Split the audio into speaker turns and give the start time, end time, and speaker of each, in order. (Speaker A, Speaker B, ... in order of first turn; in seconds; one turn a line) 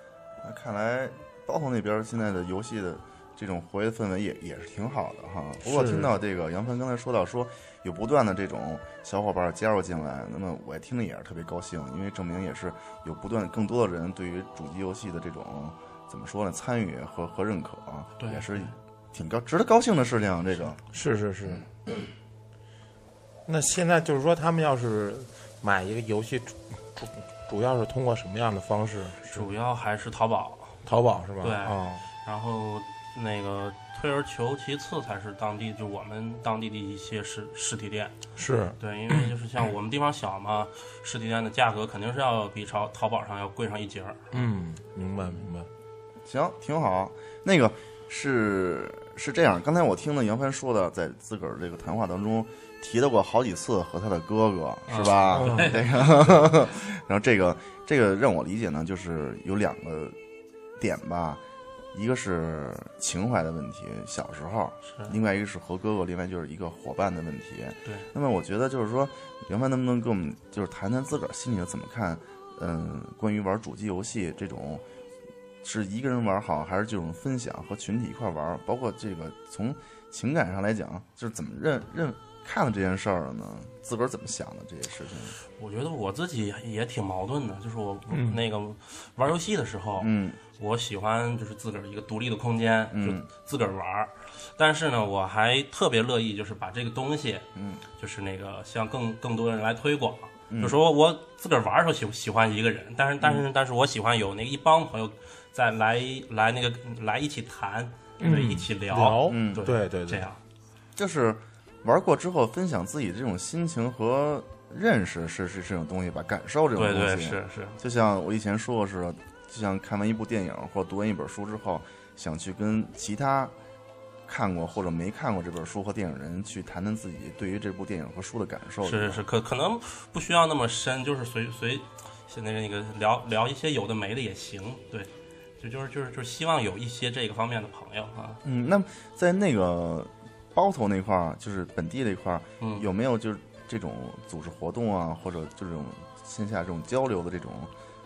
Speaker A: 0.4-20.8
Speaker B: 5.6-6.1
Speaker C: 18.2-18.8
Speaker B: 20.9-21.7
Speaker B: 23.5-29.5
Speaker C: 29.3-30.8
Speaker B: 30.8-32.0
Speaker C: 31.4-38.1
Speaker B: 38.4-39.1
Speaker C: 38.8-44.5
Speaker B: 44.3-45.7
Speaker A: 46.2-60.1
Speaker C: 54.9-56.5
Speaker B: 55.3-55.7
Speaker A: 60.8-61.4
Speaker A: 61.9-74.8
Speaker C: 64.8-65.2
Speaker A: 75.6-85.3
Speaker C: 85.5-97.5
Speaker B: 88.1-88.4
Speaker A: 90.0-90.4
Speaker A: 92.9-93.2
Speaker A: 97.5-97.8
Speaker C: 98.0-110.4
Speaker A: 100.5-100.8
Speaker B: 108.2-110.3
Speaker A: 109.3-109.7
Speaker A: 111.0-123.5
Speaker C: 116.8-117.8
Speaker A: 124.3-129.2
Speaker C: 128.8-138.4
Speaker A: 138.4-147.7
Speaker C: 142.6-142.9